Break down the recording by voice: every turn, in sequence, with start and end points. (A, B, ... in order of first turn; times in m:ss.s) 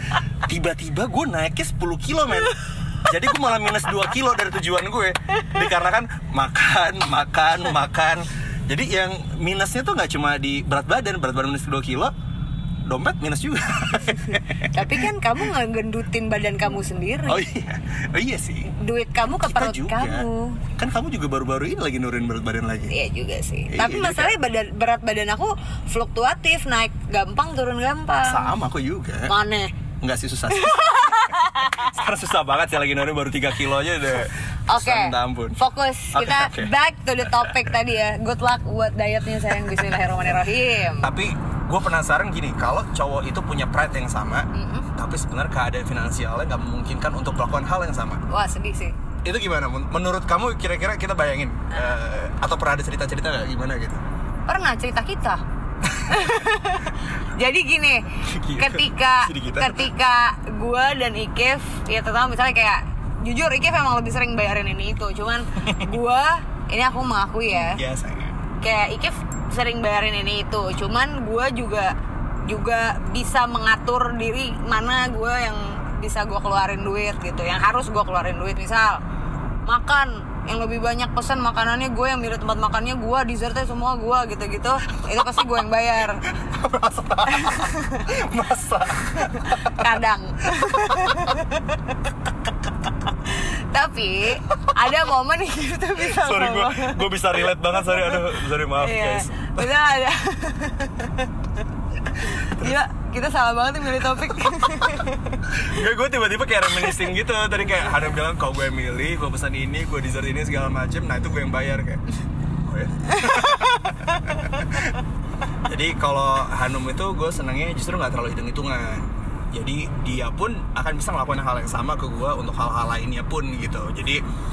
0:00.5-0:12.1 A
0:12.8-0:15.0 A
0:14.7-0:17.5 B
0:17.2-0:18.7 A
0:18.7-0:20.6 B
0:19.4-0:22.9 A
0:22.9-0:28.5 B
0:23.7-0:24.3 A
0:28.2-0:29.3 A
0:29.3-0:29.7 B
0:30.0-0:35.6 A
0:30.5-0:31.9 B
0:34.7-0:41.1 B
0:36.1-0:36.7 A
0:37.2-0:37.7 A
0:41.0-0:48.2 A
0:44.5-0:44.9 B
0:48.3-0:48.9 B
0:49.2-0:54.0 A
0:54.5-0:55.4 B
0:55.8-0:56.3 A
0:56.1-1:07.8 B
0:58.2-0:59.9 A
1:07.5-1:08.4 A
1:08.6-1:11.9 B
1:12.4-1:19.0 B
1:19.6-1:26.2 B
1:26.3-1:29.9 A
1:27.3-1:28.1 B
1:29.2-1:31.9 B
1:30.4-1:31.3 A
1:33.2-1:37.0 B
1:36.0-1:39.7 A
1:37.7-1:41.3 B
1:42.2-1:45.4 B
1:42.3-1:42.8 A
1:45.5-1:52.0 A
1:52.6-1:55.0 A
1:53.1-1:54.6 B
1:55.6-2:04.2 A